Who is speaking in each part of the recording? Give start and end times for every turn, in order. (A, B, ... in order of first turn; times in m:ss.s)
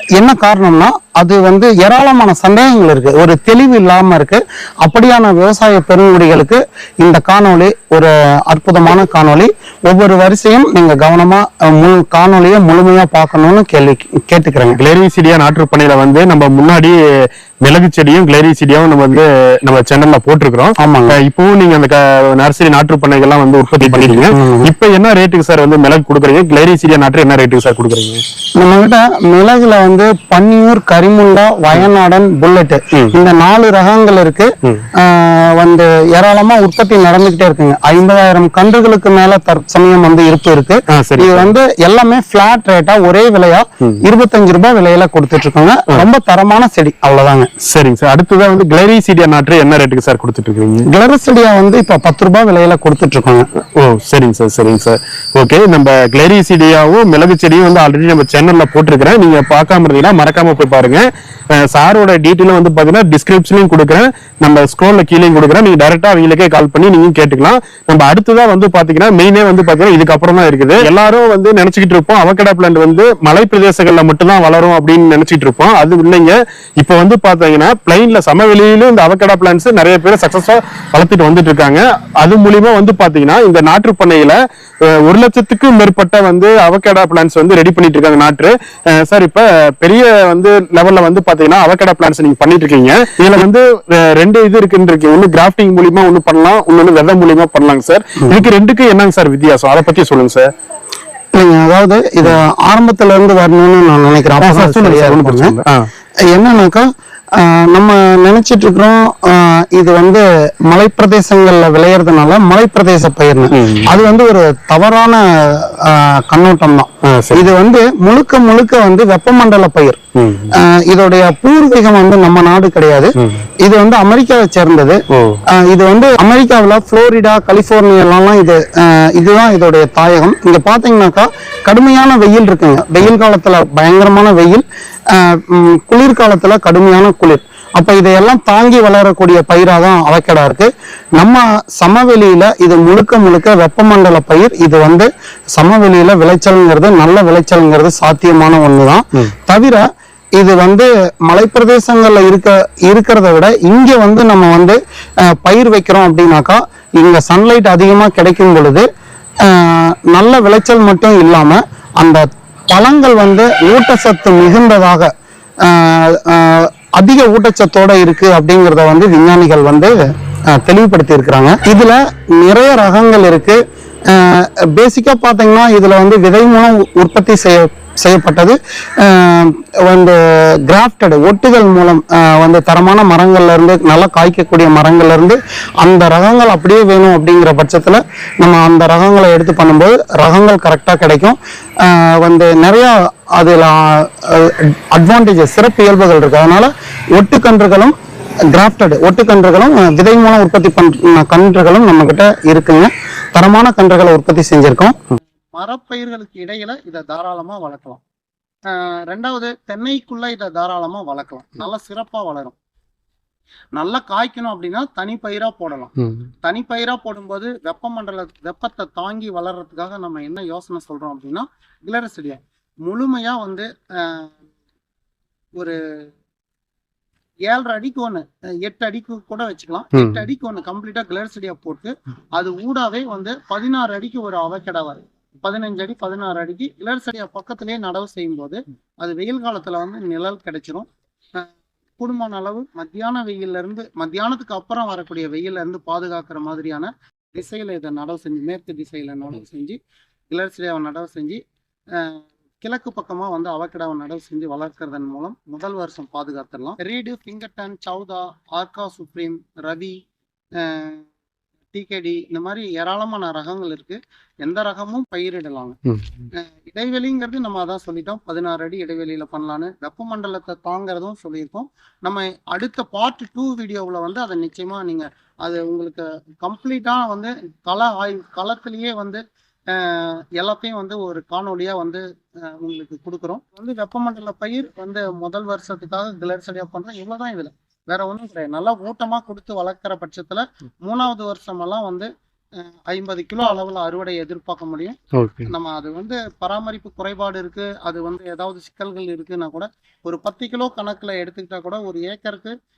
0:00.2-0:14.8 A
0:14.8-0:28.2 B
0:20.8-0:21.2 A
0:23.8-0:24.7 A
0:28.6-0:47.5 A
0:40.9-0:41.5 B
0:47.6-0:50.9 B
0:50.9-0:53.5 A
0:53.8-1:40.5 B
1:41.3-1:45.6 A
1:44.4-1:45.9 B
1:46.3-1:46.8 A
1:47.4-2:00.0 A
1:53.5-1:54.0 B
1:57.0-1:57.5 B
2:00.2-2:00.6 B
2:00.5-2:29.8 A
2:03.2-2:03.5 B
2:05.1-2:05.4 B
2:30.4-2:38.9 A
2:39.4-2:45.1 A
2:45.6-2:50.0 A
2:50.5-3:18.0 A
3:18.5-3:28.0 A
3:28.7-3:32.6 A
3:33.8-3:44.4 A
3:36.0-3:36.3 B
3:47.5-4:09.8 A
3:49.9-3:50.3 B
4:10.3-4:11.4 A
4:12.0-4:20.0 A
4:20.6-4:21.1 A
4:21.7-4:25.8 A
4:25.9-4:26.2 B
4:26.3-4:52.1 A
4:52.7-5:02.6 A
4:55.2-4:55.5 B